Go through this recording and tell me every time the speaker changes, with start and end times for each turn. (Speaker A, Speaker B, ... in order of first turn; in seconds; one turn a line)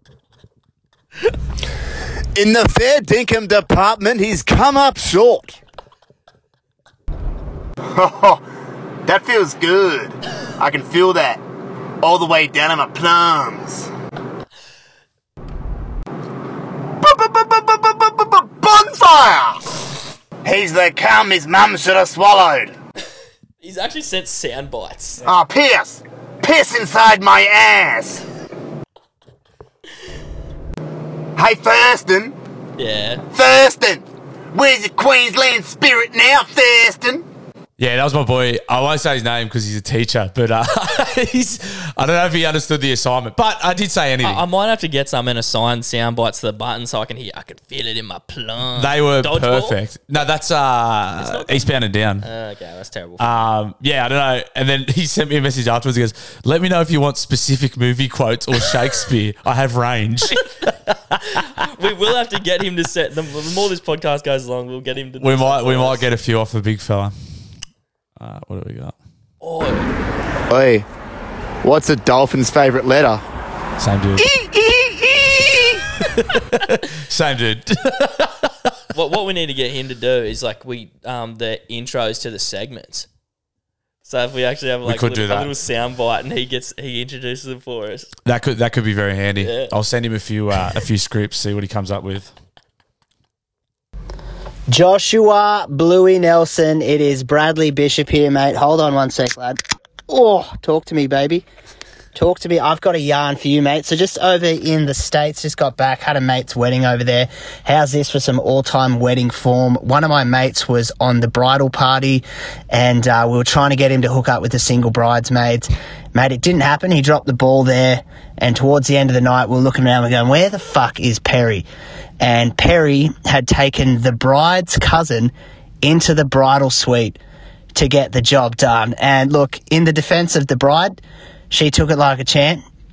Speaker A: 2.3-5.5
Speaker A: 7.9-8.4
Speaker A: 9.0-11.4
Speaker A: 12.0-13.9
Speaker A: 17.0-19.6
Speaker A: 20.4-22.7
Speaker B: 23.6-25.2
Speaker A: 25.2-28.2
Speaker A: 31.4-32.3
Speaker B: 32.8-33.2
Speaker A: 33.3-37.2
Speaker C: 37.8-44.4
Speaker B: 44.2-49.8
Speaker C: 48.8-52.3
Speaker B: 51.2-53.4
Speaker C: 53.2-60.5
Speaker B: 61.2-66.1
Speaker C: 65.2-67.1
Speaker C: 68.2-68.9
Speaker B: 69.4-69.9
Speaker D: 70.5-70.9
Speaker D: 71.6-73.2
Speaker C: 73.8-74.3
Speaker A: 74.2-75.7
Speaker C: 76.1-78.5
Speaker B: 78.9-83.1
Speaker B: 84.0-88.1
Speaker C: 84.8-85.5
Speaker C: 88.2-92.3
Speaker B: 89.4-89.7
Speaker E: 94.7-101.4
Speaker E: 102.1-121.7
Speaker E: 122.2-127.2
Speaker E: 127.7-131.0
Speaker E: 131.5-132.6